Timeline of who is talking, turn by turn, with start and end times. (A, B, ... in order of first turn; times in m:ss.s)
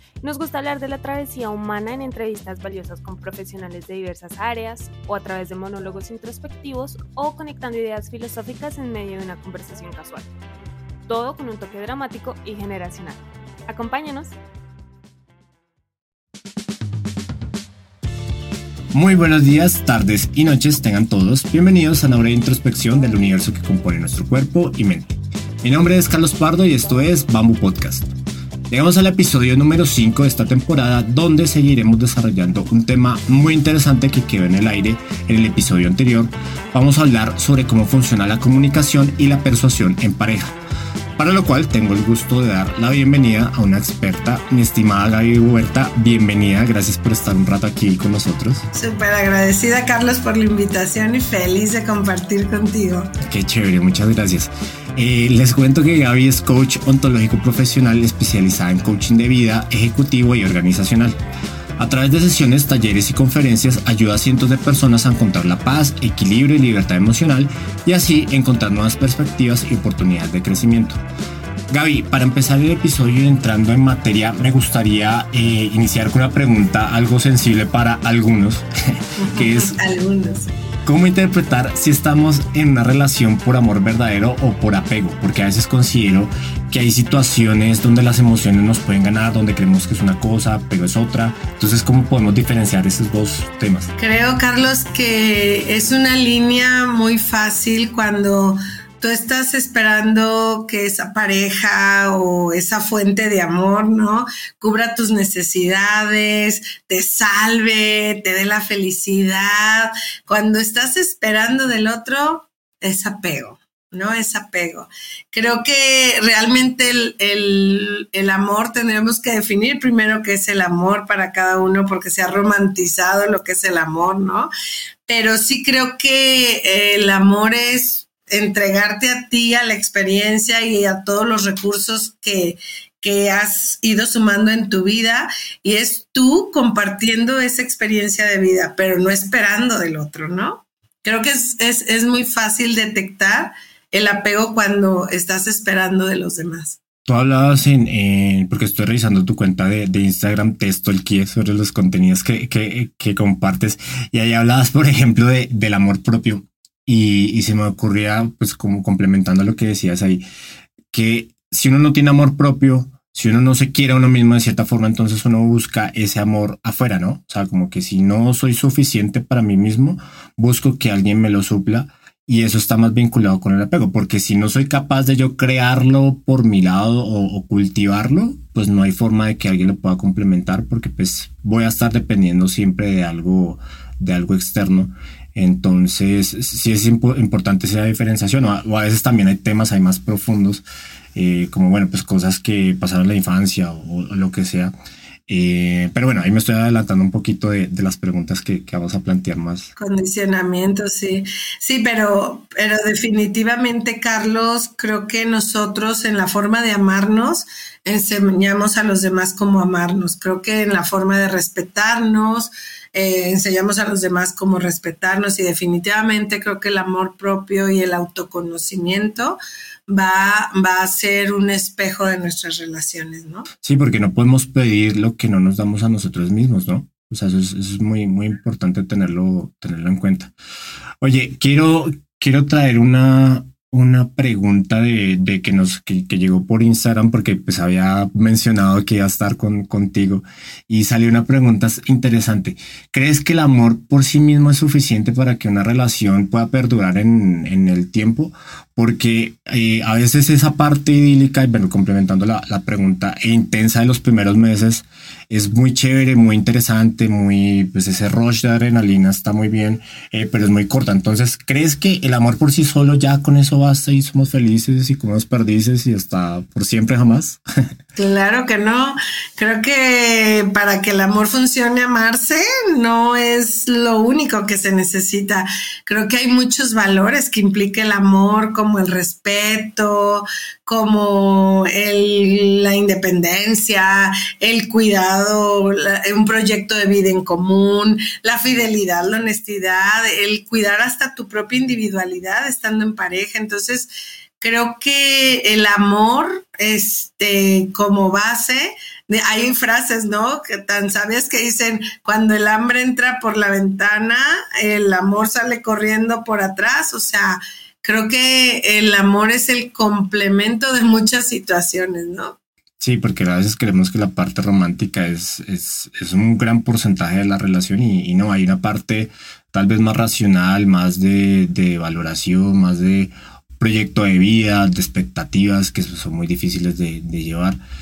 0:00.2-0:10.3 A
0:11.1-0:14.4 A
0:18.9-0:28.1 B
0:28.7-0:40.5 B
0:41.2-0:48.7 B
0:48.7-0:53.1 C
0:53.2-1:01.2 B
1:01.8-1:11.0 B
1:11.7-1:19.8 B
1:19.2-1:20.5 C
1:20.9-1:33.9 B
1:34.0-2:04.5 C
2:05.1-2:26.8 C
2:27.1-2:40.2 B
2:40.9-3:14.7 B
3:15.3-3:19.7 B
3:19.8-3:43.5 C
3:43.6-3:50.3 B
3:51.0-4:27.4 B
4:28.0-4:53.9 C
4:54.4-5:12.4 C
5:12.8-5:27.6 B